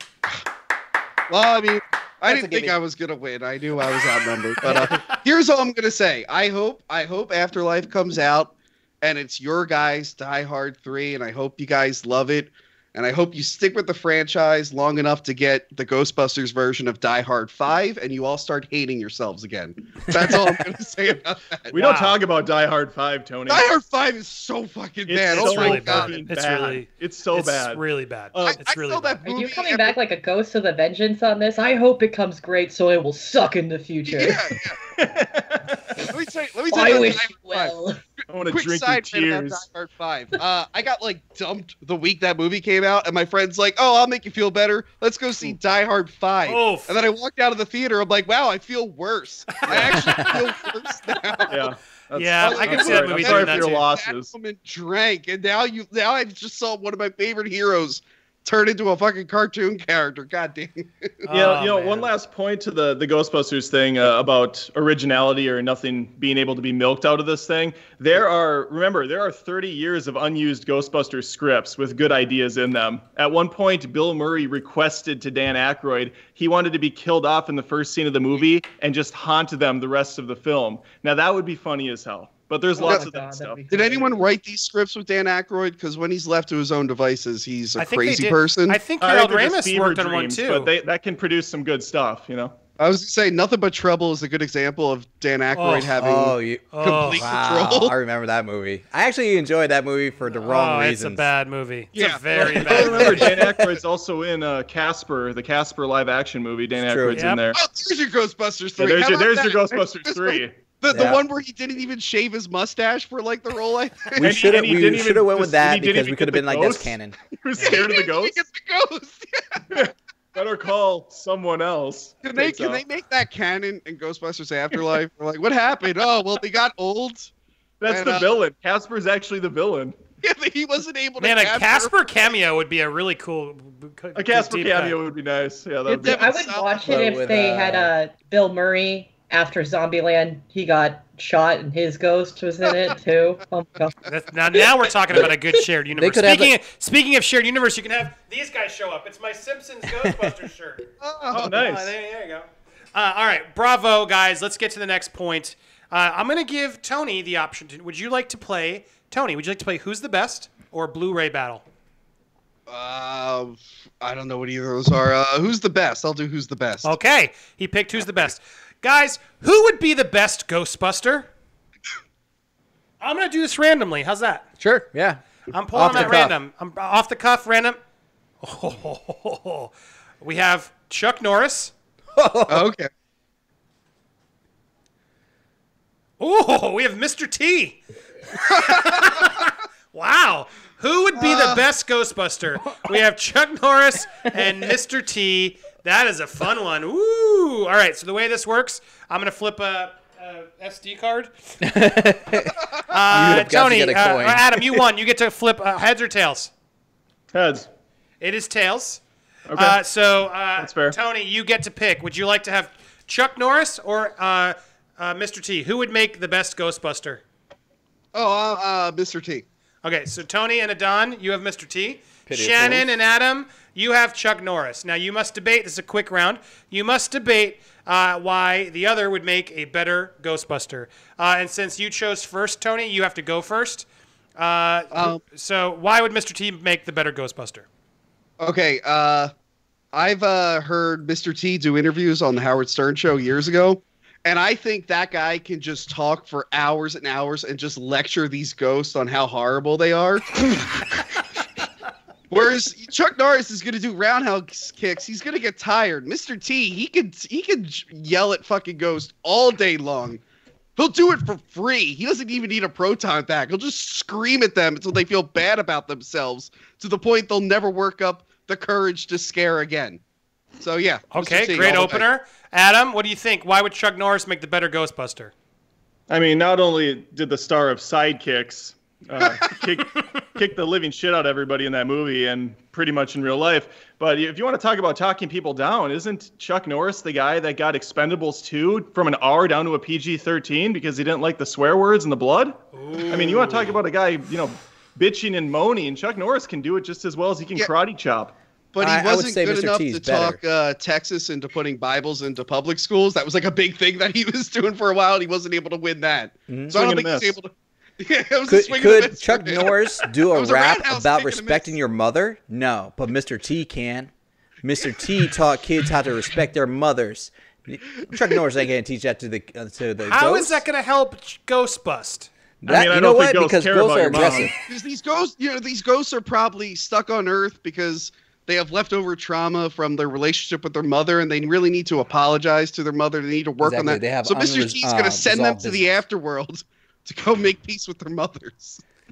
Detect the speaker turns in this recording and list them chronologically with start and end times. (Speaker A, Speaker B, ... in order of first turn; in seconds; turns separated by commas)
Speaker A: 1.3-21.8, Speaker B: 2.3-2.8, Speaker C: 4.7-5.2, Speaker D: 21.7-23.7, Speaker C: 21.8-22.2, Speaker A: 23.5-26.2, Speaker D: 25.1-27.8, Speaker C: 25.3-29.2, Speaker D: 28.3-28.6, Speaker A: 28.4-30.0, Speaker E: 29.2-34.5, Speaker A: 34.1-34.8, Speaker D: 35.0-35.8, Speaker A: 36.1-37.8, Speaker E: 36.7-38.0, Speaker D: 38.3-39.6, Speaker A: 38.5-51.7, Speaker C: 46.5-46.9, Speaker D: 49.7-50.0, Speaker C: 49.7-50.3, Speaker B: 50.0-50.3, Speaker D: 51.5-54.3, Speaker C: 52.1-53.9, Speaker A: 52.4-61.1, Speaker C: 61.2-62.1, Speaker D: 61.3-83.6, Speaker E: 82.8-84.2, Speaker A: 83.7-88.8, Speaker C: 87.8-90.7, Speaker D: 89.0-92.5, Speaker A: 92.8-97.9, Speaker C: 95.6-96.0, Speaker B: 96.0-101.3, Speaker C: 96.7-97.2, Speaker C: 100.4-103.3, Speaker A: 101.9-103.1, Speaker D: 102.4-107.6, Speaker B: 103.0-103.8, Speaker B: 106.8-107.2, Speaker C: 107.1-107.4, Speaker A: 107.5-114.4, Speaker D: 108.8-110.5, Speaker B: 110.9-111.2, Speaker B: 114.2-117.2, Speaker D: 114.2-118.4, Speaker A: 117.6-119.7, Speaker D: 119.7-122.8, Speaker A: 122.2-127.3, Speaker D: 127.8-129.9, Speaker A: 127.9-128.3, Speaker A: 130.2-131.9, Speaker C: 131.2-135.0, Speaker D: 134.2-136.3, Speaker E: 135.9-144.0, Speaker A: 136.0-137.0, Speaker B: 136.9-137.9, Speaker C: 144.1-150.9, Speaker B: 146.0-146.5, Speaker B: 149.9-150.3, Speaker A: 151.0-151.6, Speaker D: 151.3-151.9, Speaker C: 151.4-161.6, Speaker A: 162.7-166.9, Speaker C: 166.8-171.3, Speaker C: 173.0-174.5, Speaker B: 174.6-175.2, Speaker C: 175.5-177.8, Speaker B: 175.7-176.3, Speaker C: 178.4-181.7, Speaker B: 182.2-182.7, Speaker A: 182.5-182.9, Speaker C: 186.2-187.8, Speaker C: 188.5-201.3, Speaker A: 188.5-189.3, Speaker A: 191.2-191.6, Speaker B: 201.6-204.8, Speaker C: 202.9-206.5, Speaker D: 207.3-207.7, Speaker C: 208.2-209.0, Speaker D: 209.5-209.8, Speaker C: 209.6-217.2, Speaker D: 210.6-211.0, Speaker A: 218.1-219.4, Speaker C: 219.8-233.9, Speaker B: 222.3-222.9, Speaker C: 234.4-237.7, Speaker A: 234.9-235.2, Speaker A: 238.4-239.3, Speaker A: 239.9-250.8, Speaker A: 252.3-260.2, Speaker A: 260.8-270.0, Speaker A: 270.6-272.0, Speaker C: 271.1-275.3, Speaker D: 276.1-298.3, Speaker C: 292.7-293.6, Speaker A: 298.7-309.7, Speaker B: 298.8-300.4, Speaker B: 306.5-306.8, Speaker D: 306.7-307.4, Speaker B: 308.5-314.1, Speaker A: 310.3-311.8, Speaker B: 314.6-320.6, Speaker C: 320.1-322.3, Speaker B: 322.6-324.5, Speaker D: 322.7-324.5, Speaker A: 324.7-338.8, Speaker B: 333.6-336.0